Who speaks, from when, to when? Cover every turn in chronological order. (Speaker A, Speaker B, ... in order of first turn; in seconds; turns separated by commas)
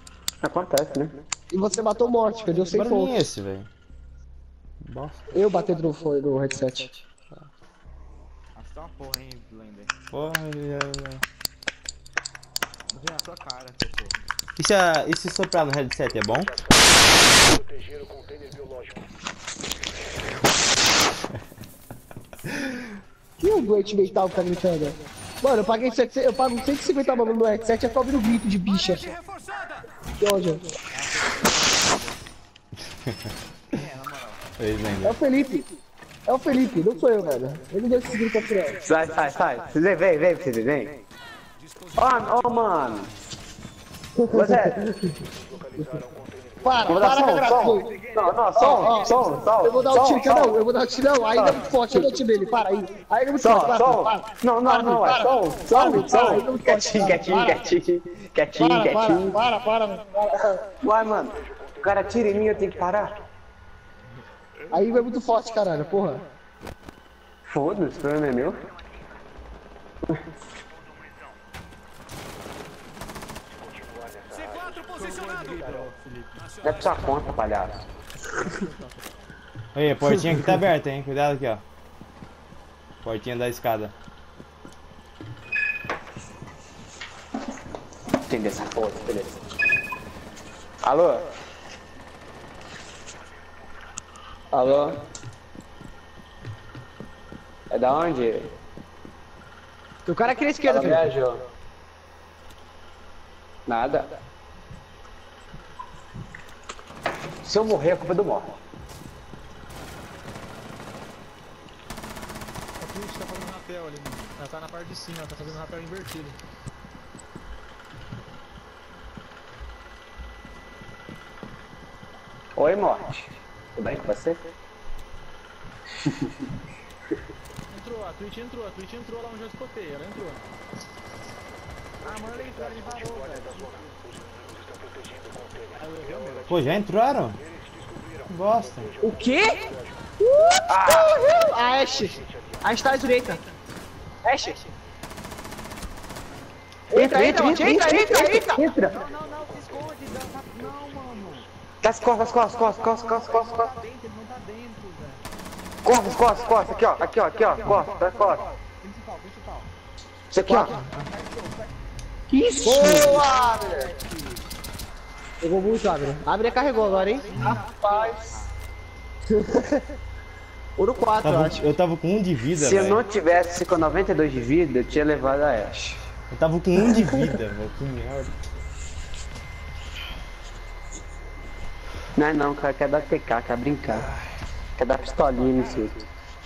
Speaker A: 0.4-1.2, Speaker B: 1.5-3.2, Speaker C: 2.6-3.7, Speaker C: 4.8-5.2, Speaker B: 5.3-7.0, Speaker D: 8.5-9.9, Speaker C: 10.1-11.2, Speaker D: 12.9-14.2, Speaker C: 14.6-16.6, Speaker B: 23.4-29.1, Speaker B: 30.2-30.7, Speaker D: 30.9-32.2, Speaker D: 33.7-34.4, Speaker C: 34.6-35.1, Speaker B: 35.0-35.7, Speaker B: 36.3-38.8, Speaker A: 38.8-41.0, Speaker D: 39.1-39.4, Speaker A: 42.0-43.1, Speaker A: 44.3-44.8, Speaker B: 44.3-45.0, Speaker B: 46.6-47.9, Speaker A: 46.9-50.6, Speaker D: 48.4-49.7, Speaker B: 48.6-57.6, Speaker A: 51.3-51.7, Speaker A: 53.4-59.4, Speaker B: 58.5-60.4, Speaker A: 60.8-63.1, Speaker B: 64.7-66.2, Speaker A: 67.5-68.6, Speaker D: 74.9-76.6, Speaker A: 76.6-77.7, Speaker D: 78.3-79.2, Speaker C: 79.7-81.6, Speaker C: 83.0-83.9, Speaker A: 88.3-89.4, Speaker A: 90.8-91.3, Speaker A: 94.5-95.0, Speaker A: 97.7-98.5, Speaker B: 100.0-101.1, Speaker A: 100.6-101.4, Speaker A: 103.7-104.1, Speaker A: 107.4-108.5, Speaker E: 112.8-116.4, Speaker A: 122.6-124.4, Speaker E: 127.7-130.4, Speaker D: 132.0-134.0, Speaker D: 135.8-136.5, Speaker C: 136.5-137.4, Speaker C: 138.3-138.9, Speaker B: 139.0-139.6, Speaker B: 140.2-143.4, Speaker A: 140.7-141.1, Speaker B: 144.2-144.6, Speaker B: 146.9-148.6, Speaker A: 146.9-148.9, Speaker D: 148.8-151.5, Speaker A: 151.8-153.7, Speaker D: 152.9-155.2, Speaker A: 155.8-158.4, Speaker D: 157.1-159.7, Speaker A: 160.3-160.8, Speaker B: 160.4-160.8, Speaker D: 160.7-161.7, Speaker B: 162.3-163.7, Speaker A: 162.6-163.2, Speaker D: 162.8-164.4, Speaker B: 165.4-168.2, Speaker D: 167.0-168.5, Speaker B: 169.3-169.8, Speaker B: 170.8-171.6, Speaker C: 171.2-173.0, Speaker A: 172.6-175.9, Speaker C: 176.3-178.3, Speaker A: 182.1-184.1, Speaker A: 184.8-186.1